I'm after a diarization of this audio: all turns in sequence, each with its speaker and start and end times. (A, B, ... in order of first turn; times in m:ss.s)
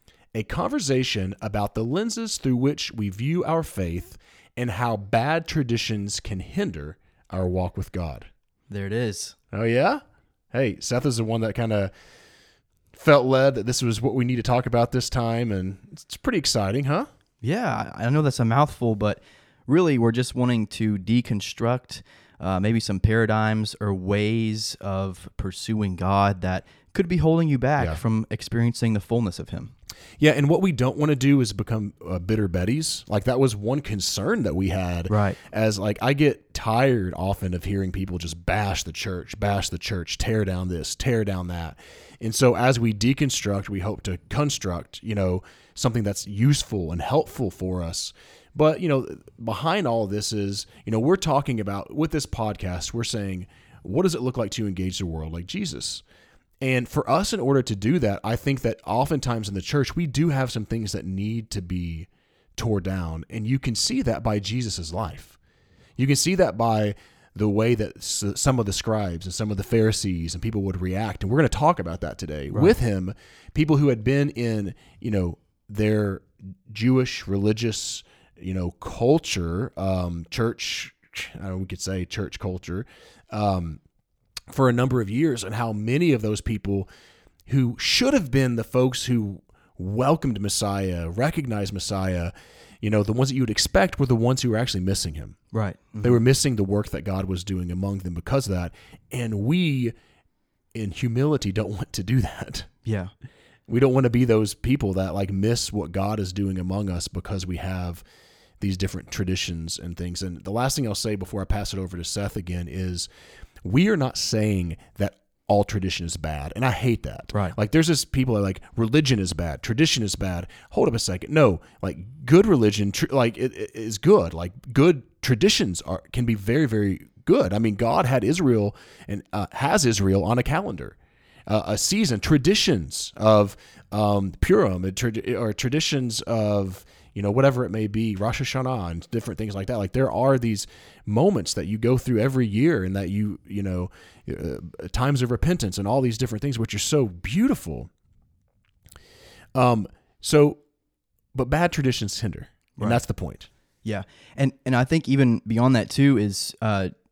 0:00.3-0:08.3 A
0:08.7-0:09.4 B
0:09.5-0:11.9 A
0:12.9-0:17.1 A
0:17.4-0:29.7 B
0:30.2-0:56.0 A
0:35.1-0:35.4 B
0:56.6-1:05.4 A
1:06.0-1:23.8 A
1:24.5-1:26.9 A
1:27.5-1:35.4 A
1:35.5-1:36.2 B
1:36.0-1:39.9 A
1:40.7-1:42.7 A
1:42.8-1:43.1 B
1:43.7-1:48.0 A
1:48.6-1:53.1 A
1:53.6-2:27.9 A
2:29.6-2:30.6 A
2:31.3-2:33.5 A
2:33.8-2:36.9 B